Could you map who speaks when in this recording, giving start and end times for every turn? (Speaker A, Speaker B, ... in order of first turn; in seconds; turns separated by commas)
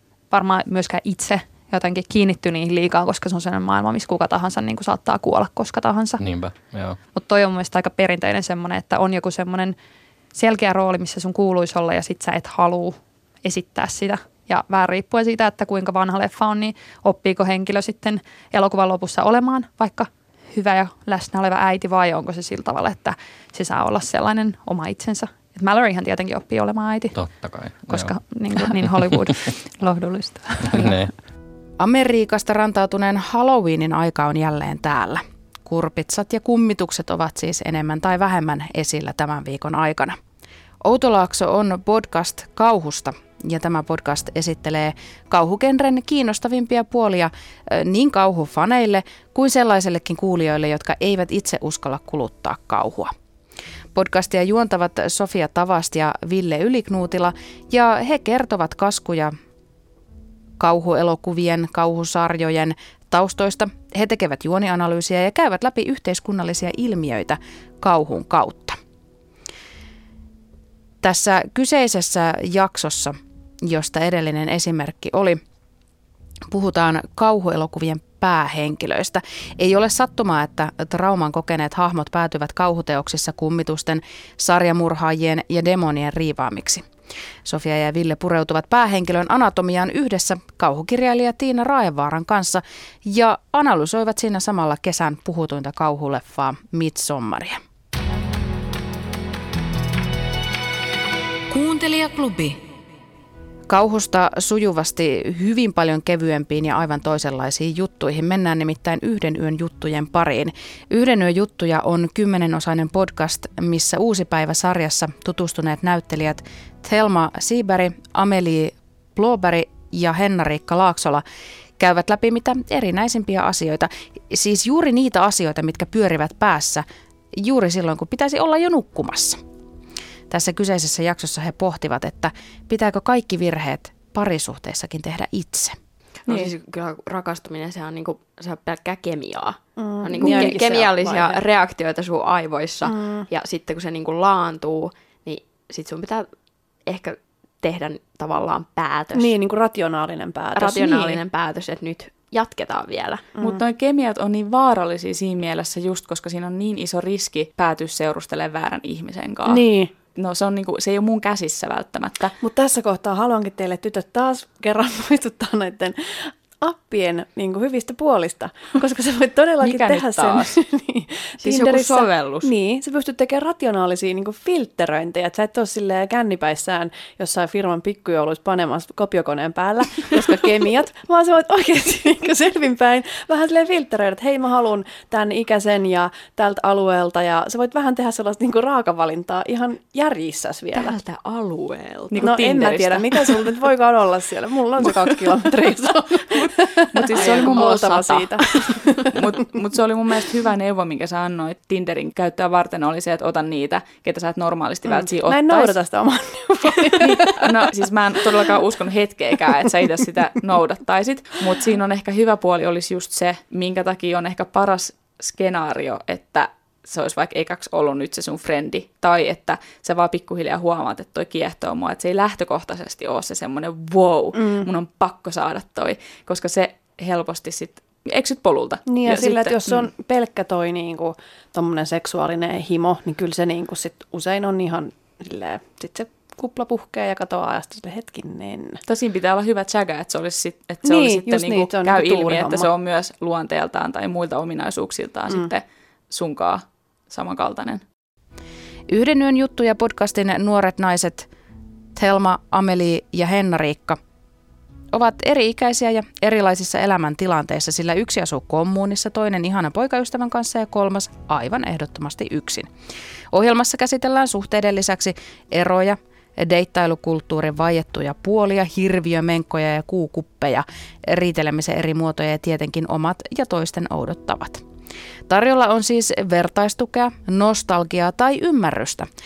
Speaker A: 0.3-6.2, Speaker B: 6.2-7.0, Speaker A: 7.1-9.8, Speaker A: 10.3-27.1, Speaker B: 27.1-28.1, Speaker A: 27.9-31.1, Speaker B: 30.7-31.1, Speaker C: 31.8-40.2, Speaker C: 40.8-53.1, Speaker C: 54.0-59.3, Speaker C: 60.6-68.8, Speaker C: 71.0-75.4, Speaker C: 76.5-86.8, Speaker C: 87.5-97.6, Speaker C: 101.5-102.6, Speaker C: 103.7-121.2, Speaker C: 121.8-129.4, Speaker C: 130.3-135.8, Speaker D: 136.2-146.3, Speaker E: 139.8-141.2, Speaker D: 146.8-149.4, Speaker E: 149.2-151.1, Speaker D: 150.5-153.3, Speaker F: 153.4-162.3, Speaker E: 159.5-159.9, Speaker E: 162.4-171.8, Speaker F: 169.6-170.6, Speaker D: 171.4-172.5, Speaker E: 172.5-190.7, Speaker D: 190.7-193.7, Speaker F: 192.1-193.4, Speaker E: 192.2-198.6, Speaker D: 194.8-196.0, Speaker F: 196.9-198.4, Speaker D: 197.1-197.9, Speaker F: 198.9-205.8, Speaker E: 204.9-207.4, Speaker F: 206.7-229.9, Speaker E: 224.4-224.6, Speaker E: 228.9-238.8, Speaker F: 238.9-247.8, Speaker E: 240.8-242.7, Speaker C: 248.9-251.3, Speaker C: 251.9-254.0, Speaker C: 254.9-262.7, Speaker C: 263.3-274.6, Speaker C: 275.3-279.1